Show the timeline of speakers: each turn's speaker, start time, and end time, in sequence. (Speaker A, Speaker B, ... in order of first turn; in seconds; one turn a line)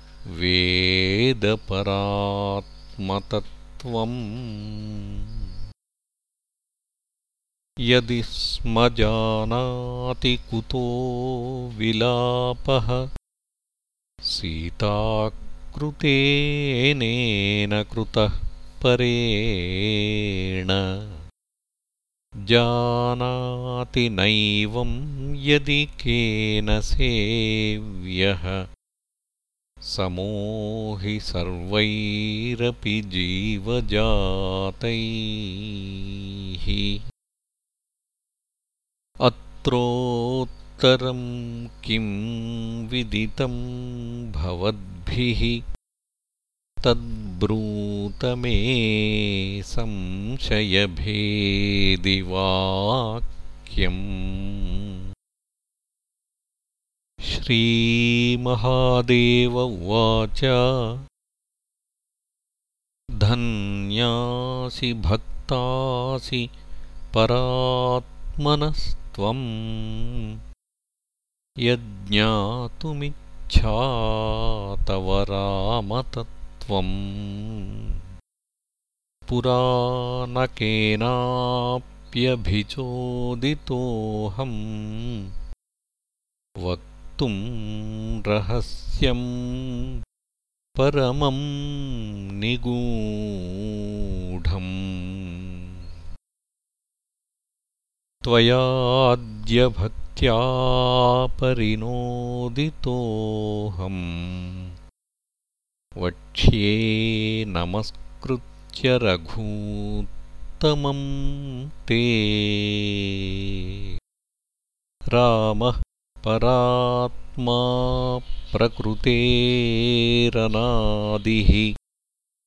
Speaker A: 0.4-5.4
Speaker A: 7.9-13.1
Speaker A: 14.2-21.1
Speaker A: 22.5-28.6
Speaker A: 29.8-37.0
Speaker A: 39.2-45.6
Speaker A: 46.8-55.0
Speaker A: 57.3-61.0
Speaker A: 63.2-66.5
Speaker A: 67.1-70.4
Speaker A: 71.6-77.9
Speaker A: 79.3-85.3
Speaker A: 86.6-90.0
Speaker A: 90.8-95.7
Speaker A: 98.2-104.7
Speaker A: 106.0-110.1
Speaker A: 110.6-113.9
Speaker A: 115.1-121.7